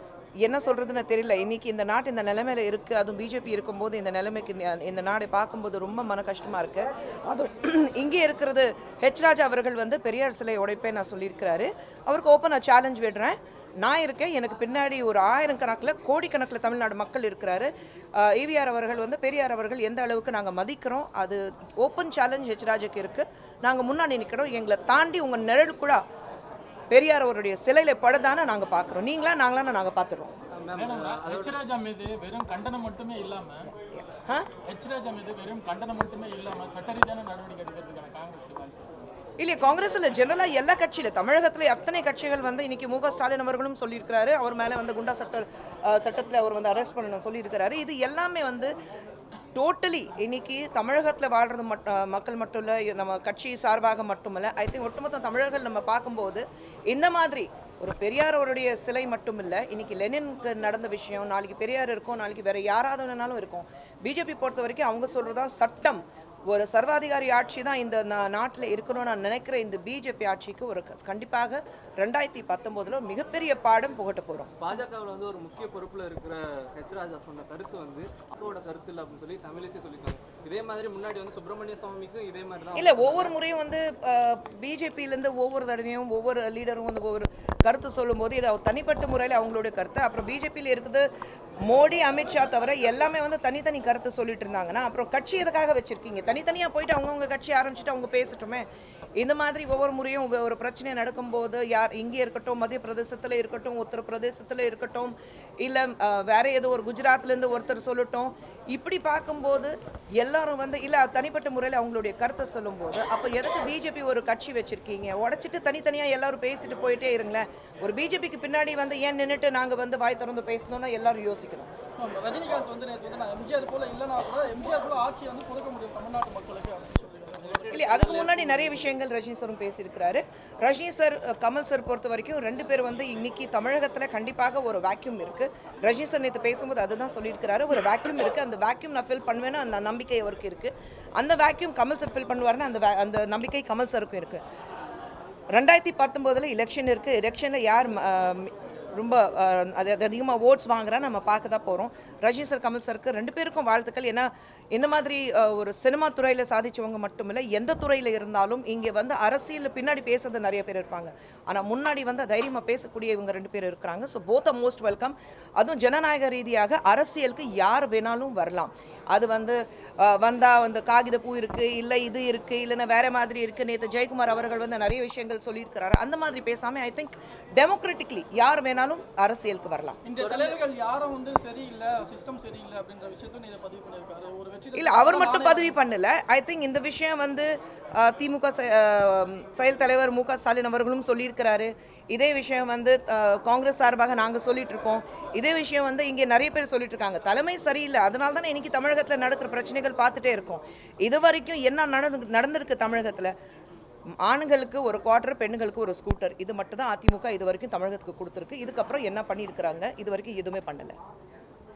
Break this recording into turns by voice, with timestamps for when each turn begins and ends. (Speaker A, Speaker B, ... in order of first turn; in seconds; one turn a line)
Speaker A: 0.4-26.0
Speaker A: 26.9-30.3
Speaker B: 30.5-31.6
Speaker C: 30.8-33.7
Speaker A: 33.7-34.5
Speaker C: 34.7-38.9
Speaker A: 39.4-48.7
Speaker A: 49.5-74.5
Speaker B: 74.6-83.3
Speaker A: 82.7-91.1
Speaker A: 91.6-98.6
Speaker A: 99.2-121.7
Speaker D: 122.0-128.0
Speaker B: 127.4-128.9
Speaker A: 127.7-144.4
Speaker A: 145.5-180.0
Speaker D: 180.0-185.8
Speaker B: 180.2-180.6
Speaker A: 184.8-203.3
Speaker A: 204.2-210.9